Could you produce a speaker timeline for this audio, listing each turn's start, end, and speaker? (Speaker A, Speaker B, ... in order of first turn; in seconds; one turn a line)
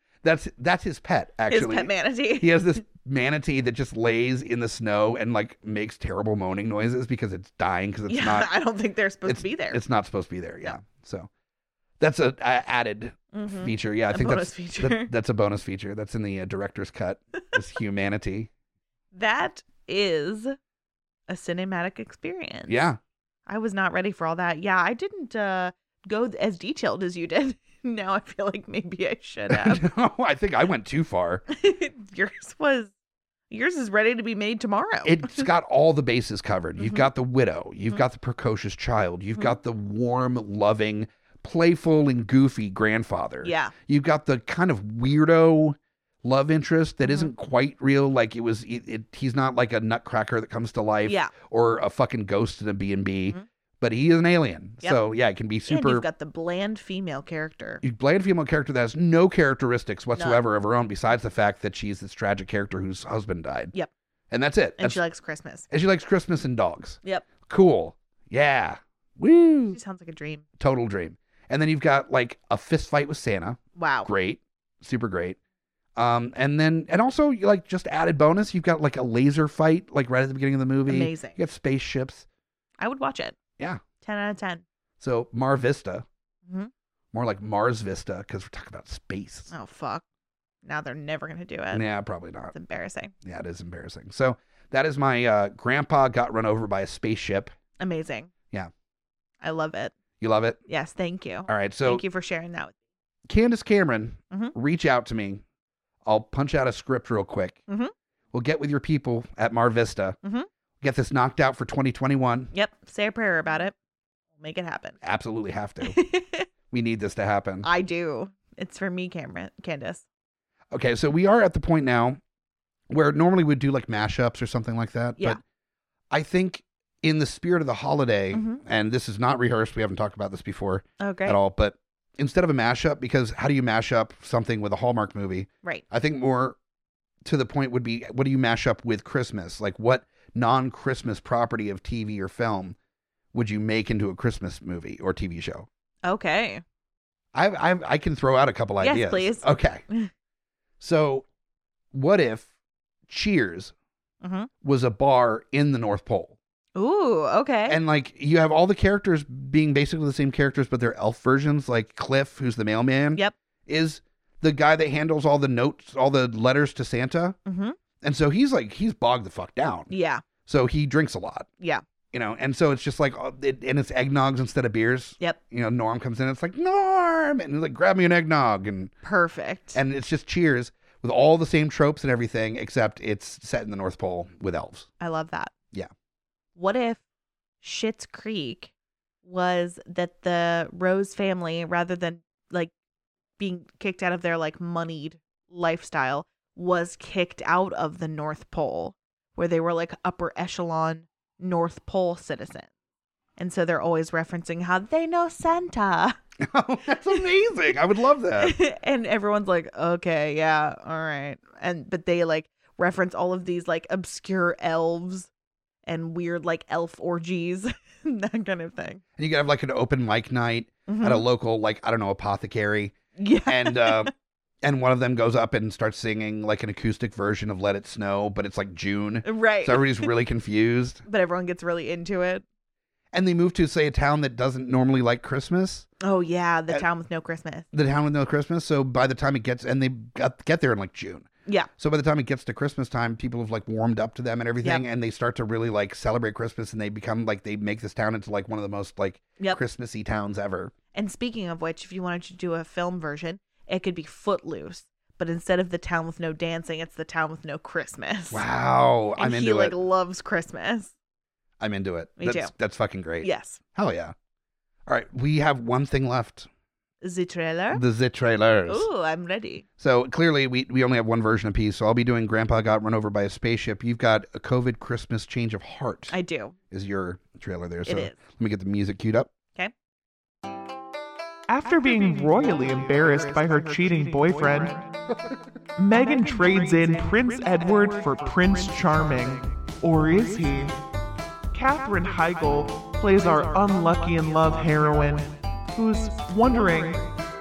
Speaker A: 0.2-8.5
Speaker B: 1.5-2.8
Speaker B: 8.1-9.8
Speaker A: 9.2-11.3
Speaker A: 12.0-18.5
Speaker B: 13.3-15.1
Speaker B: 19.1-20.6
Speaker B: 21.3-22.9
Speaker A: 22.7-23.0
Speaker B: 23.5-29.9
Speaker A: 29.5-31.4
Speaker B: 31.5-32.9
Speaker B: 33.5-35.5
Speaker A: 35.0-56.1
Speaker B: 36.8-37.1
Speaker B: 43.4-43.7
Speaker B: 47.0-47.3
Speaker B: 51.0-51.3
Speaker B: 55.7-57.8
Speaker A: 57.8-63.7
Speaker B: 60.1-60.4
Speaker A: 64.3-65.0
Speaker B: 64.8-65.7
Speaker A: 65.7-69.8
Speaker B: 69.7-70.5
Speaker A: 70.6-75.4
Speaker B: 73.8-74.1
Speaker A: 76.0-82.2
Speaker B: 80.9-81.4
Speaker B: 82.8-83.4
Speaker B: 84.0-84.6
Speaker A: 85.0-86.1
Speaker B: 86.5-86.7
Speaker A: 87.1-89.5
Speaker B: 89.5-90.0
Speaker B: 90.6-91.9
Speaker A: 91.7-92.5
Speaker B: 92.5-93.1
Speaker A: 93.2-97.5
Speaker B: 97.8-98.3
Speaker B: 99.4-99.9
Speaker A: 100.2-100.6
Speaker B: 100.7-102.8
Speaker A: 101.5-102.0
Speaker A: 103.3-105.4
Speaker A: 106.0-107.6
Speaker A: 108.3-110.2
Speaker A: 110.8-112.5
Speaker B: 112.5-113.7
Speaker B: 114.4-115.0
Speaker A: 115.0-116.0
Speaker B: 115.8-116.5
Speaker A: 116.7-117.7
Speaker B: 117.6-120.0
Speaker A: 120.7-122.2
Speaker A: 122.9-125.4
Speaker A: 126.1-136.6
Speaker B: 128.3-128.6
Speaker B: 131.0-131.4
Speaker A: 137.2-142.8
Speaker A: 143.3-145.7
Speaker B: 146.0-146.6
Speaker A: 147.3-149.8
Speaker B: 148.8-150.1
Speaker A: 150.8-151.3
Speaker A: 151.9-152.5
Speaker A: 153.1-153.7
Speaker B: 154.2-154.5
Speaker A: 154.6-156.4
Speaker B: 156.8-157.8
Speaker A: 157.7-167.4
Speaker B: 167.5-167.8
Speaker A: 168.0-169.9
Speaker B: 169.9-170.2
Speaker A: 170.5-171.5
Speaker A: 172.1-178.9
Speaker B: 179.0-179.8
Speaker A: 179.7-184.9
Speaker B: 185.0-185.5
Speaker B: 186.6-187.0
Speaker B: 187.6-188.7
Speaker B: 189.2-192.7
Speaker B: 193.4-202.7
Speaker B: 203.4-206.2
Speaker A: 206.4-208.6
Speaker B: 208.4-215.3
Speaker B: 215.8-219.0
Speaker A: 219.2-224.1
Speaker B: 220.9-221.3
Speaker B: 223.2-224.1
Speaker A: 224.6-231.0
Speaker B: 229.2-230.1
Speaker B: 231.1-232.4
Speaker A: 233.1-235.9
Speaker B: 236.0-237.7
Speaker A: 237.7-241.3
Speaker A: 241.8-250.7
Speaker B: 250.9-258.4
Speaker A: 258.3-259.8
Speaker B: 259.2-260.9
Speaker A: 261.6-264.1
Speaker B: 262.2-262.5
Speaker B: 263.2-263.6
Speaker A: 264.9-266.5
Speaker B: 267.0-267.8
Speaker A: 267.7-268.9
Speaker B: 268.7-269.6
Speaker A: 269.8-276.1
Speaker B: 276.1-276.6
Speaker A: 276.7-279.3
Speaker B: 277.9-278.1
Speaker C: 281.5-284.9
Speaker C: 285.8-290.8
Speaker C: 291.5-297.1